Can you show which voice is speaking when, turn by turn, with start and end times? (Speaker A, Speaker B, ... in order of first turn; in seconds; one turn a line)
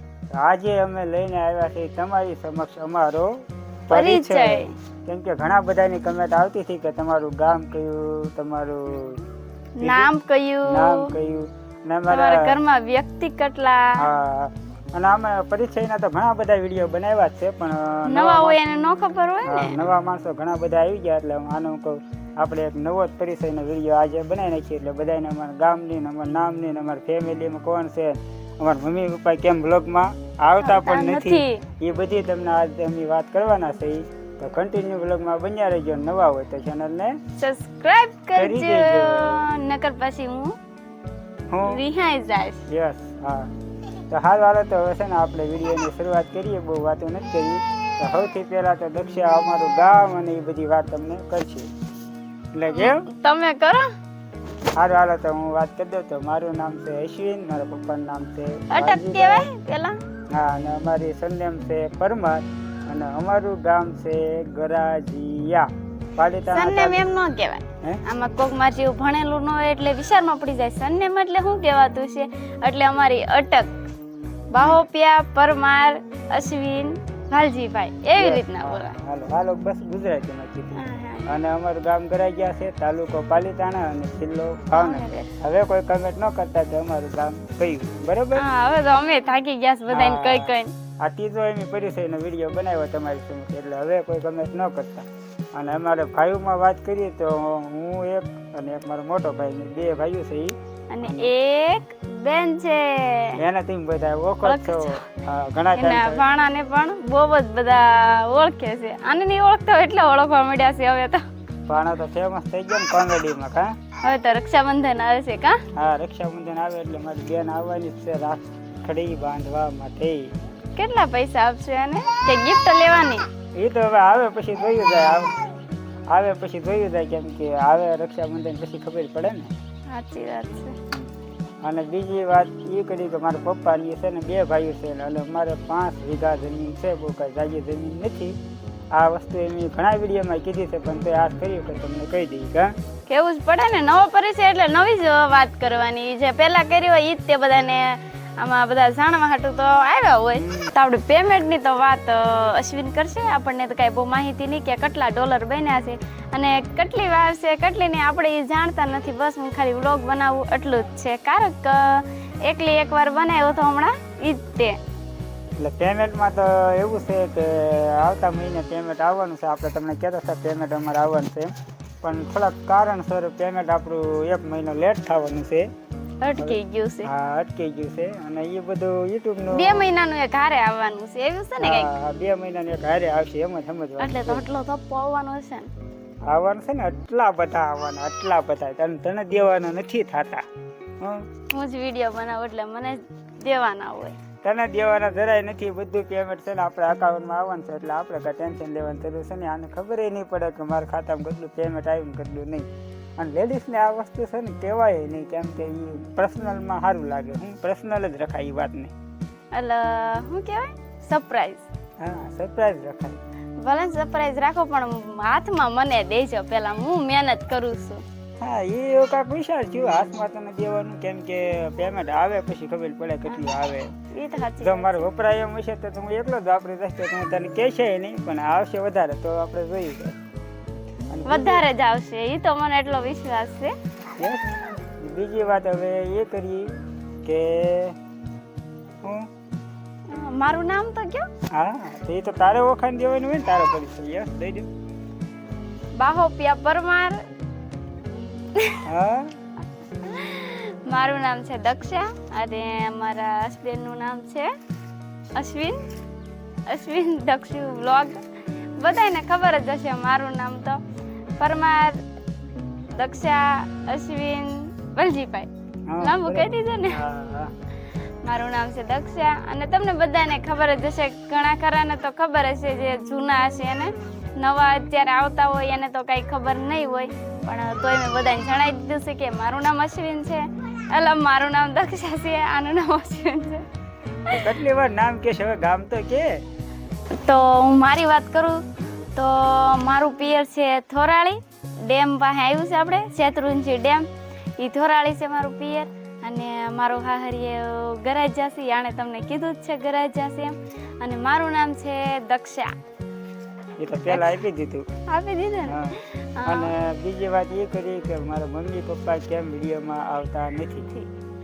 Speaker A: 0.3-3.3
Speaker A: 3.9-9.2
Speaker B: 3.9-4.7
Speaker B: 9.8-11.2
Speaker A: 9.8-10.1
Speaker A: 10.7-12.6
Speaker B: 12.1-14.0
Speaker A: 14.0-18.6
Speaker B: 18.1-19.8
Speaker A: 19.4-37.1
Speaker B: 30.6-31.6
Speaker B: 37.4-40.5
Speaker A: 38.4-39.5
Speaker A: 41.5-41.8
Speaker B: 41.6-42.6
Speaker A: 42.7-43.5
Speaker A: 44.1-51.7
Speaker A: 52.5-53.1
Speaker B: 52.7-53.9
Speaker A: 54.8-59.5
Speaker B: 58.7-60.0
Speaker A: 60.3-67.1
Speaker B: 66.5-73.7
Speaker B: 74.5-78.9
Speaker A: 78.2-88.4
Speaker B: 80.7-81.3
Speaker B: 84.7-85.3
Speaker B: 88.3-90.7
Speaker A: 89.9-101.3
Speaker B: 100.9-103.3
Speaker A: 103.4-106.2
Speaker B: 104.4-105.0
Speaker B: 105.8-111.2
Speaker A: 111.7-113.7
Speaker B: 114.0-115.6
Speaker A: 115.7-120.3
Speaker B: 120.8-123.2
Speaker A: 123.5-125.3
Speaker A: 126.1-129.5
Speaker B: 129.9-130.8
Speaker A: 131.6-138.4
Speaker A: 138.9-142.7
Speaker B: 143.1-164.8
Speaker A: 150.3-150.7
Speaker A: 165.6-171.5
Speaker A: 172.0-175.7
Speaker B: 176.2-177.1
Speaker A: 176.4-179.9
Speaker B: 179.5-181.9
Speaker A: 181.6-184.4
Speaker B: 184.0-185.7
Speaker A: 186.3-190.4
Speaker B: 191.5-194.2
Speaker A: 194.4-208.9
Speaker B: 209.5-211.7
Speaker A: 212.0-213.2
Speaker B: 213.6-218.0
Speaker A: 218.4-223.9
Speaker B: 224.1-225.0
Speaker A: 224.6-230.1
Speaker A: 231.1-231.6
Speaker B: 231.2-233.7
Speaker A: 234.2-234.5
Speaker A: 235.0-236.7
Speaker A: 237.2-237.9
Speaker A: 239.0-239.3
Speaker B: 240.1-241.3
Speaker A: 241.5-244.7
Speaker B: 245.9-247.2
Speaker B: 248.5-248.8
Speaker A: 248.8-249.3
Speaker B: 250.0-254.5
Speaker B: 255.3-255.8
Speaker B: 256.7-258.2
Speaker B: 258.8-260.8
Speaker B: 261.4-262.0
Speaker B: 262.9-265.5
Speaker A: 265.9-267.5
Speaker B: 266.0-267.0
Speaker B: 268.2-283.6
Speaker A: 284.3-286.3
Speaker B: 287.1-288.6
Speaker B: 289.1-294.1
Speaker B: 294.6-302.7
Speaker A: 303.8-304.9
Speaker B: 304.1-304.4
Speaker B: 305.1-306.7
Speaker A: 305.6-311.1